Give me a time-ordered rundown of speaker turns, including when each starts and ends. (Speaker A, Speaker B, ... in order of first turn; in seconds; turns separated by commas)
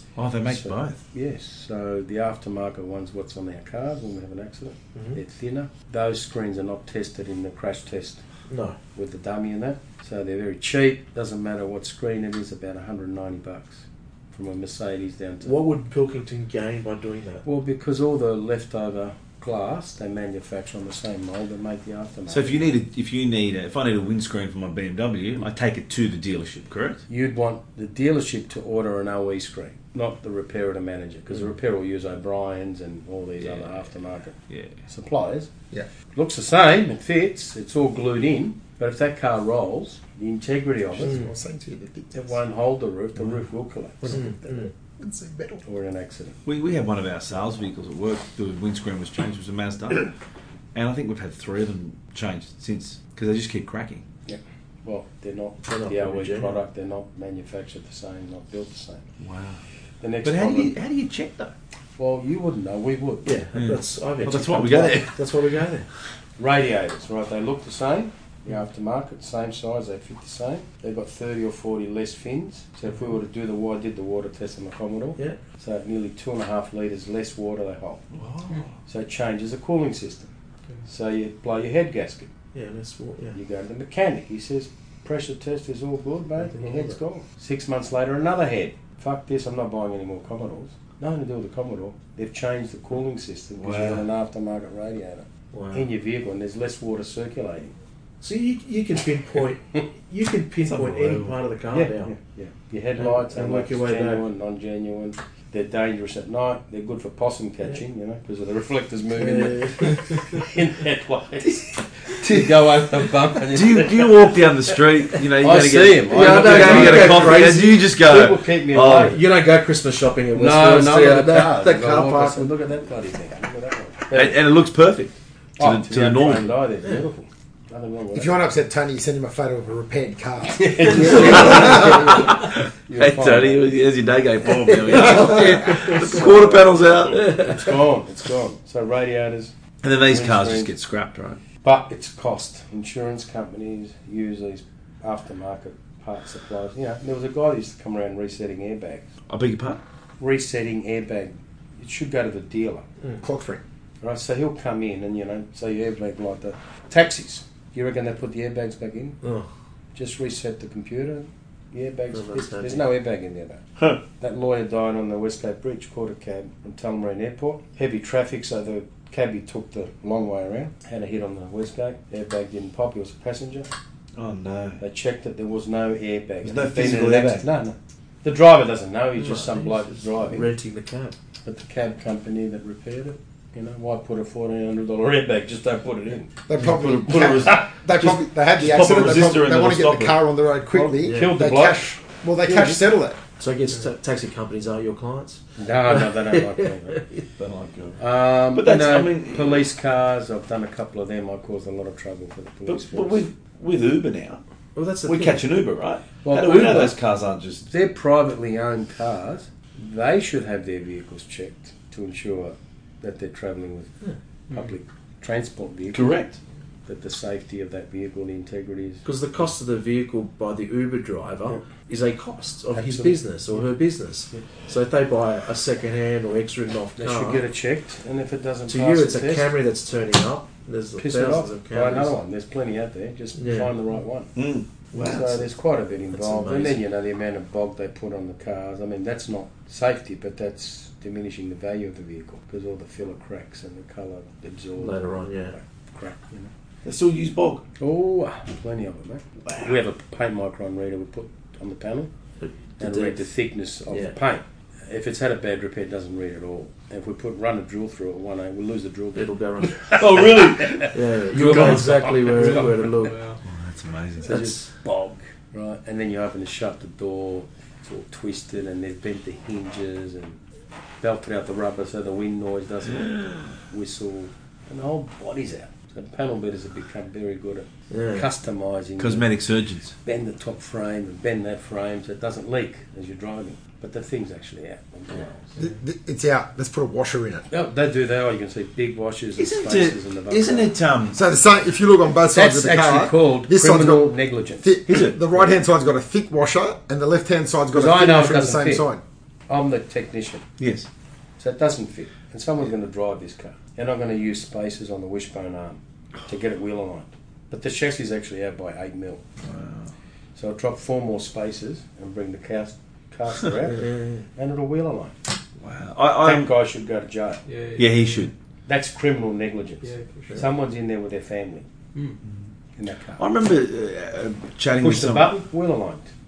Speaker A: 0.2-1.0, Speaker B: 0.5-8.2, Speaker C: 8.5-8.8, Speaker B: 8.9-15.5, Speaker C: 15.4-17.4, Speaker B: 17.4-22.7, Speaker A: 22.3-27.0, Speaker B: 27.1-35.5, Speaker B: 36.1-41.3, Speaker D: 40.9-42.4, Speaker B: 42.1-44.7, Speaker C: 44.0-44.7, Speaker D: 45.0-45.6, Speaker B: 45.6-46.4, Speaker A: 46.5-50.1, Speaker A: 50.7-54.0, Speaker B: 54.3-59.0, Speaker C: 55.7-56.5, Speaker A: 59.2-59.6, Speaker B: 60.0-60.7, Speaker A: 60.2-61.5, Speaker B: 62.0-63.4, Speaker C: 63.2-65.9, Speaker A: 63.5-65.1, Speaker B: 66.4-78.0, Speaker A: 78.2-78.7, Speaker B: 78.8-80.3, Speaker B: 80.9-82.3, Speaker C: 82.5-83.4, Speaker B: 83.3-97.7, Speaker C: 86.4-87.0, Speaker A: 93.6-94.1, Speaker C: 95.5-95.9, Speaker C: 98.2-102.1, Speaker A: 100.7-101.4, Speaker B: 101.7-114.5, Speaker C: 103.0-104.2, Speaker C: 109.2-110.0, Speaker A: 113.5-119.2, Speaker B: 115.4-119.2, Speaker C: 116.1-117.8, Speaker C: 118.9-122.5, Speaker B: 120.3-124.3, Speaker A: 124.1-126.5, Speaker B: 125.6-128.4, Speaker D: 128.1-132.2, Speaker B: 130.5-133.7, Speaker A: 130.9-137.5, Speaker C: 130.9-131.8, Speaker C: 134.7-136.2, Speaker B: 135.0-135.3, Speaker D: 135.2-135.6, Speaker C: 137.1-137.5, Speaker B: 137.2-139.5, Speaker A: 139.8-141.4, Speaker B: 140.1-140.7, Speaker B: 141.6-149.1, Speaker A: 149.3-149.8, Speaker B: 150.2-152.9, Speaker D: 153.2-153.6, Speaker B: 154.0-159.2, Speaker C: 159.2-159.5, Speaker B: 159.9-163.6, Speaker C: 162.1-162.8, Speaker B: 164.2-173.7, Speaker A: 174.2-174.8, Speaker B: 174.8-180.5, Speaker A: 176.4-177.5, Speaker C: 179.2-181.2, Speaker B: 181.5-186.3, Speaker D: 186.5-193.2, Speaker A: 186.6-190.2, Speaker B: 187.1-187.7, Speaker B: 190.7-191.8, Speaker C: 191.0-191.3, Speaker B: 192.4-192.8, Speaker C: 193.4-197.2, Speaker B: 195.6-197.0, Speaker A: 197.4-198.0, Speaker B: 198.0-203.2, Speaker A: 198.5-199.7, Speaker A: 202.7-204.4, Speaker C: 204.8-205.4, Speaker A: 205.1-207.7, Speaker B: 206.2-207.0, Speaker B: 207.7-213.9, Speaker B: 214.5-216.1, Speaker A: 215.9-216.4, Speaker B: 216.9-219.0, Speaker C: 219.0-227.4, Speaker B: 222.8-223.7, Speaker B: 227.0-229.5, Speaker C: 228.7-232.2, Speaker B: 231.0-234.3, Speaker C: 233.3-233.7, Speaker A: 234.4-235.5, Speaker B: 235.0-246.5, Speaker C: 236.1-236.8, Speaker C: 244.8-245.6, Speaker A: 246.8-247.7, Speaker B: 247.8-252.1, Speaker A: 249.5-249.7, Speaker C: 252.4-253.2, Speaker B: 252.8-262.9, Speaker C: 253.9-254.2, Speaker C: 259.1-259.8, Speaker A: 260.0-261.9, Speaker C: 260.9-263.2, Speaker E: 262.3-263.4, Speaker A: 263.4-264.5, Speaker B: 264.2-270.4, Speaker B: 271.0-279.3, Speaker C: 277.9-278.3, Speaker A: 279.0-279.9, Speaker B: 280.0-285.6, Speaker D: 285.6-287.4, Speaker B: 287.5-290.7, Speaker A: 289.4-291.2, Speaker D: 291.1-299.0, Speaker B: 292.2-294.7, Speaker A: 294.9-295.2, Speaker B: 297.7-298.9, Speaker B: 299.5-300.4, Speaker A: 300.6-300.9, Speaker B: 301.4-309.2, Speaker A: 309.4-309.9, Speaker B: 310.4-315.1, Speaker C: 313.7-314.2, Speaker A: 315.6-316.5, Speaker B: 316.2-317.4, Speaker E: 317.4-318.3, Speaker A: 317.8-318.3, Speaker B: 318.7-321.7, Speaker E: 319.8-320.5, Speaker E: 321.9-322.2, Speaker B: 322.8-323.2, Speaker A: 323.2-325.3, Speaker B: 324.8-326.1